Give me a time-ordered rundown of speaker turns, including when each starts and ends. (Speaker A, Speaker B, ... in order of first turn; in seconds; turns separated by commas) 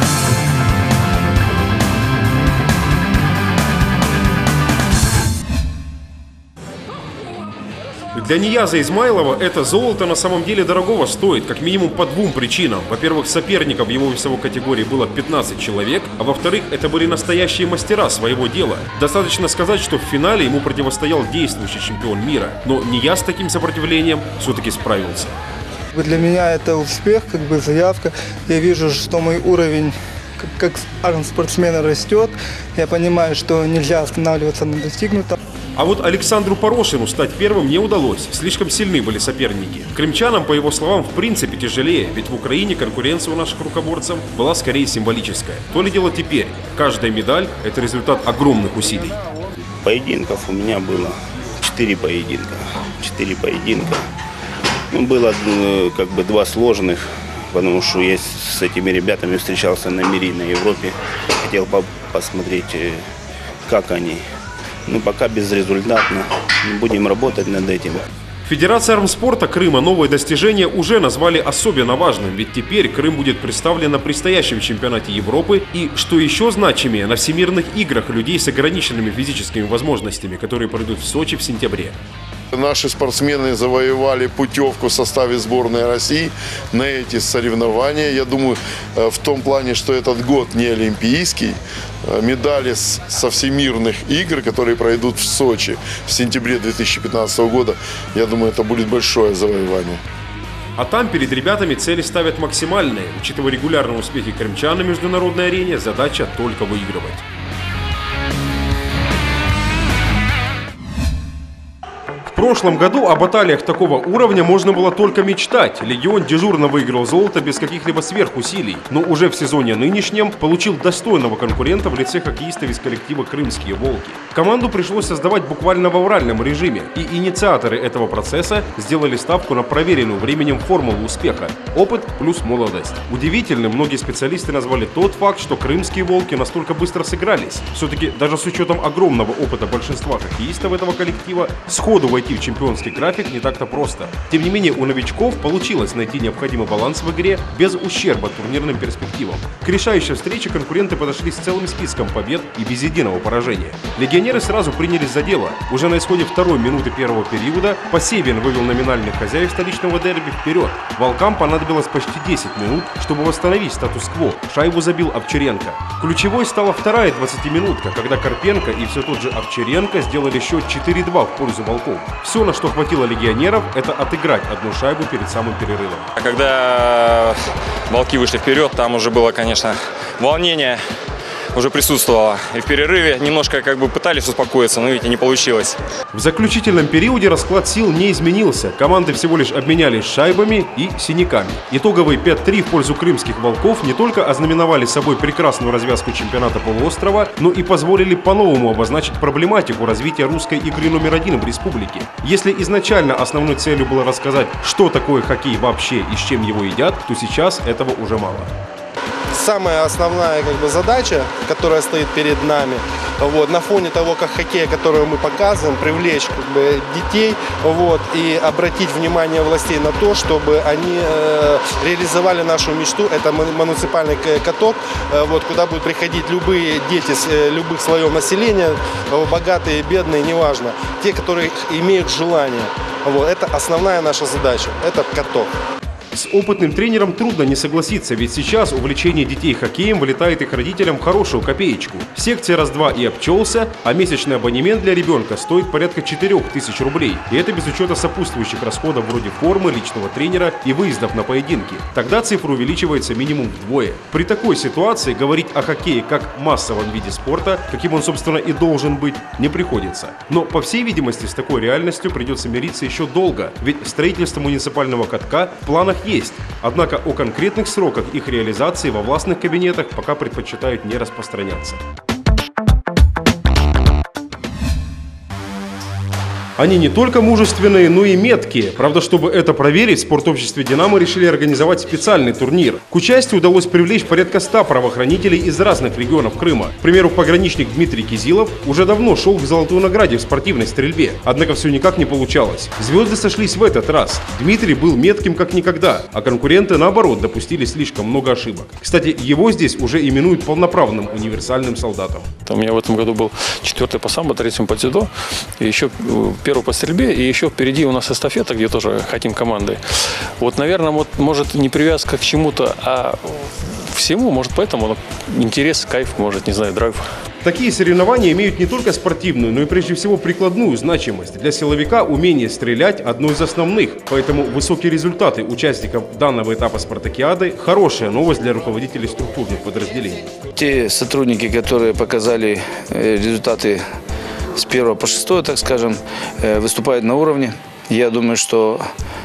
Speaker A: 8.1-25.4, Speaker B: 25.9-35.4, Speaker A: 35.8-49.2, Speaker C: 49.8-54.0, Speaker C: 54.9-63.0, Speaker C: 63.6-64.2, Speaker C: 64.9-68.0, Speaker A: 68.5-82.0, Speaker D: 82.5-100.0, Speaker A: 100.8-107.2, Speaker A: 112.3-176.1, Speaker E: 176.2-180.8, Speaker E: 181.5-185.8, Speaker A: 186.1-208.5, Speaker F: 209.3-235.5, Speaker A: 236.1-271.8, Speaker A: 276.6-302.3, Speaker G: 302.5-317.1, Speaker A: 317.4-330.2, Speaker H: 330.6-333.8, Speaker H: 334.6-338.9